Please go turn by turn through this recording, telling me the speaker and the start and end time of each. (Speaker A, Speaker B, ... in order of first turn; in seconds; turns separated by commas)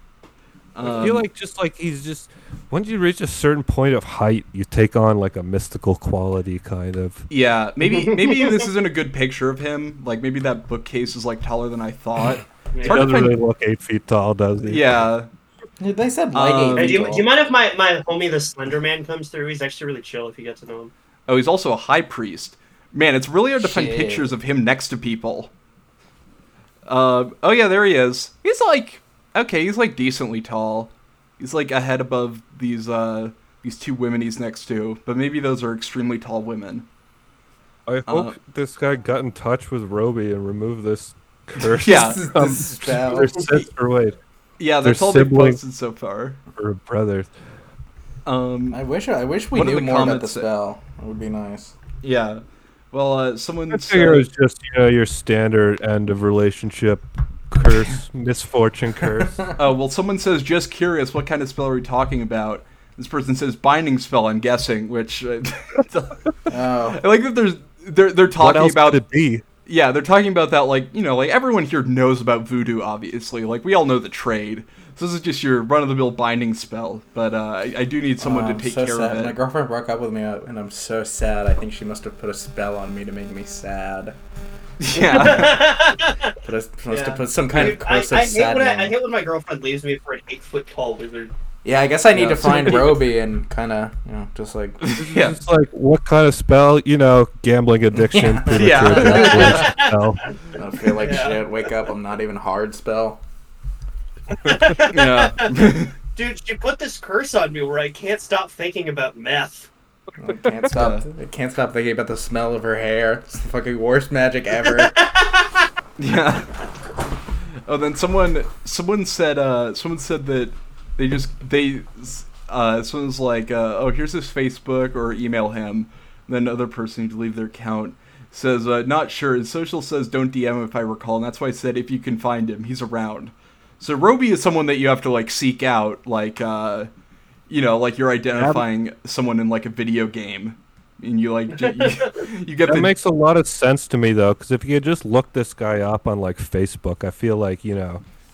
Speaker A: 0.7-1.2, Speaker B: 0.8-7.3, Speaker A: 7.3-13.3, Speaker C: 7.9-8.4, Speaker C: 12.7-13.1, Speaker B: 12.8-15.0, Speaker A: 14.7-15.3, Speaker D: 15.8-17.3, Speaker A: 16.3-17.2, Speaker C: 16.8-20.9, Speaker A: 21.3-25.5, Speaker D: 23.6-24.3, Speaker A: 26.9-36.9, Speaker B: 37.9-44.1, Speaker A: 38.1-38.3, Speaker A: 41.8-43.1, Speaker D: 41.8-43.5, Speaker A: 44.6-46.4, Speaker B: 44.8-45.6, Speaker B: 46.5-47.3, Speaker A: 48.2-48.8, Speaker D: 48.7-51.7, Speaker A: 49.5-50.5, Speaker A: 52.0-54.2, Speaker B: 53.7-59.4, Speaker A: 59.5-69.0, Speaker D: 66.5-67.0, Speaker B: 68.4-69.4, Speaker A: 69.7-79.3, Speaker D: 78.2-84.2, Speaker A: 84.8-85.7, Speaker C: 85.0-86.3, Speaker D: 86.4-88.9, Speaker C: 86.9-91.3, Speaker D: 91.6-94.8, Speaker A: 92.1-93.0, Speaker A: 94.8-95.4, Speaker B: 95.0-100.2, Speaker D: 97.9-99.7, Speaker A: 98.5-99.7, Speaker C: 99.1-99.9, Speaker D: 100.5-103.2, Speaker C: 100.9-101.5, Speaker C: 104.3-109.7, Speaker A: 104.8-105.9, Speaker D: 110.2-115.0, Speaker A: 110.7-111.0, Speaker C: 114.7-115.6, Speaker A: 116.0-116.5, Speaker A: 117.7-136.9, Speaker A: 137.5-142.9, Speaker B: 138.4-138.6, Speaker C: 141.6-142.1, Speaker B: 142.7-148.0